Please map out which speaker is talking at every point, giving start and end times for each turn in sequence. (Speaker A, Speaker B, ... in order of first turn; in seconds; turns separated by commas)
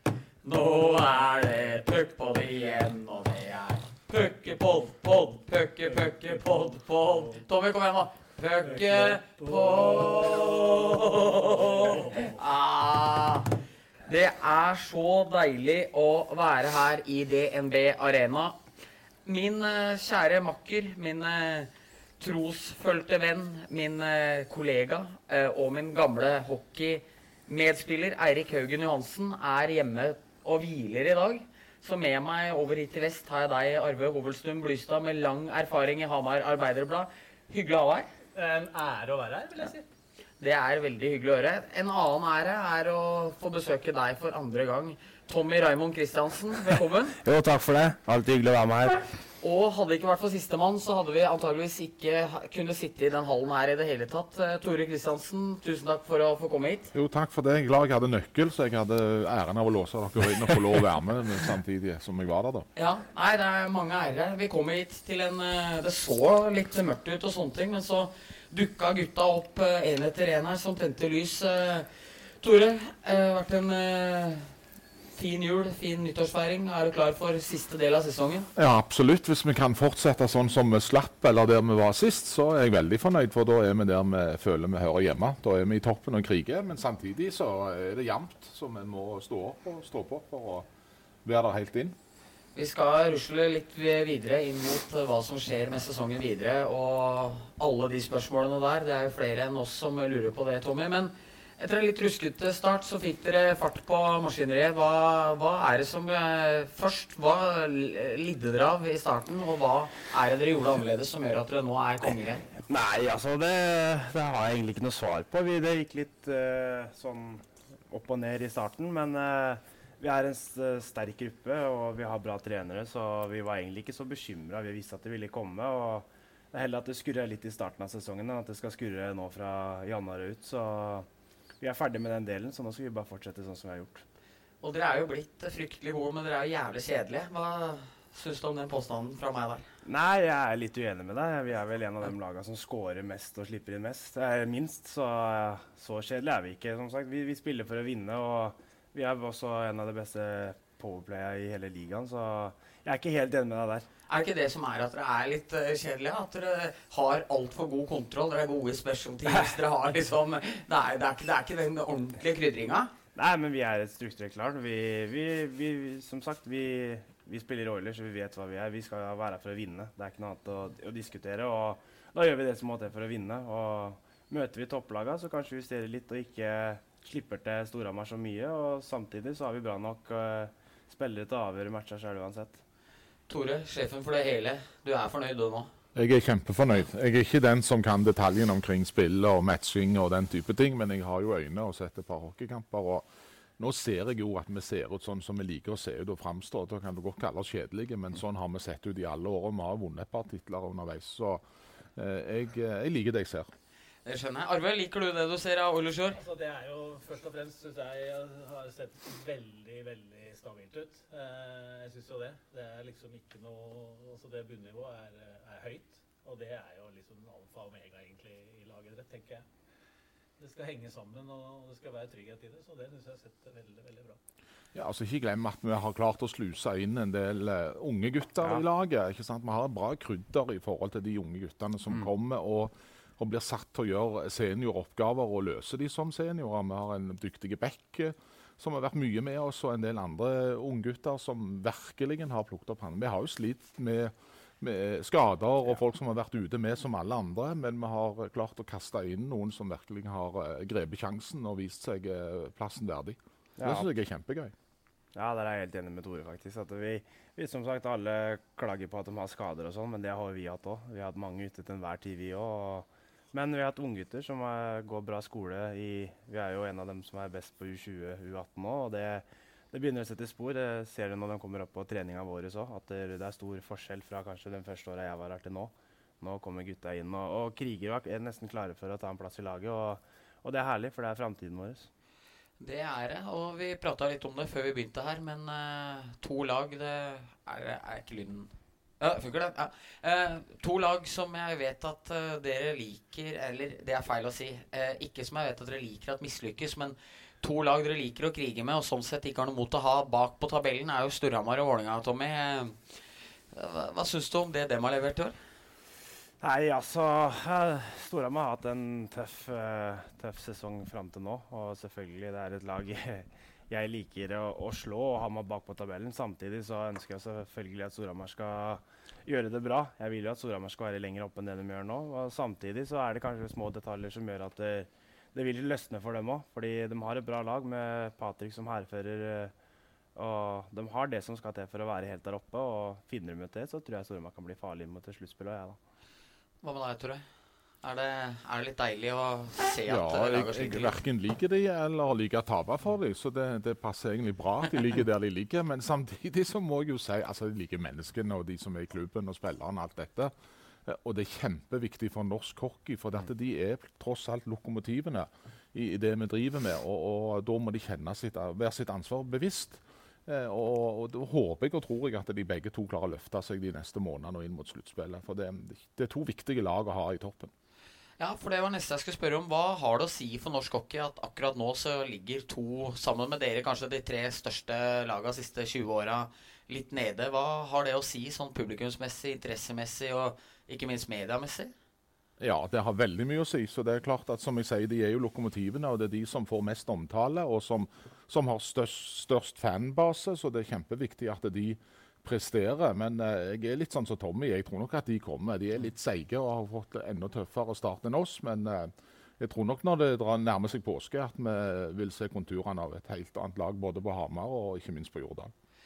Speaker A: 0.4-18.6, Speaker A: 19.2-38.1, Speaker B: 38.3-39.8, Speaker A: 40.4-47.2, Speaker C: 47.2-49.1, Speaker A: 49.4-56.9, Speaker D: 56.9-62.7, Speaker A: 62.8-74.5, Speaker A: 75.1-78.5, Speaker D: 78.5-90.7, Speaker D: 91.2-91.9, Speaker A: 92.5-112.4, Speaker C: 112.6-131.1, Speaker C: 131.6-134.0, Speaker A: 134.6-139.7, Speaker C: 139.8-153.9, Speaker A: 154.1-162.9, Speaker C: 163.1-182.6, Speaker A: 183.3-185.7, Speaker D: 185.9-193.1, Speaker D: 193.6-201.4, Speaker D: 201.9-203.5, Speaker A: 204.0-206.2, Speaker B: 206.2-219.4, Speaker B: 220.4-224.2, Speaker D: 224.7-254.5, Speaker C: 253.6-253.9, Speaker C: 255.1-281.9, Speaker A: 282.6-303.0, Speaker A: 303.5-305.4, Speaker C: 306.4-329.5, Speaker C: 330.1-335.8, Speaker A: 336.6-337.2, Speaker A: 337.8-341.0, Speaker D: 339.9-350.3, Speaker D: 350.8-367.5, Speaker A: 368.2-381.7, Speaker D: 382.4-405.5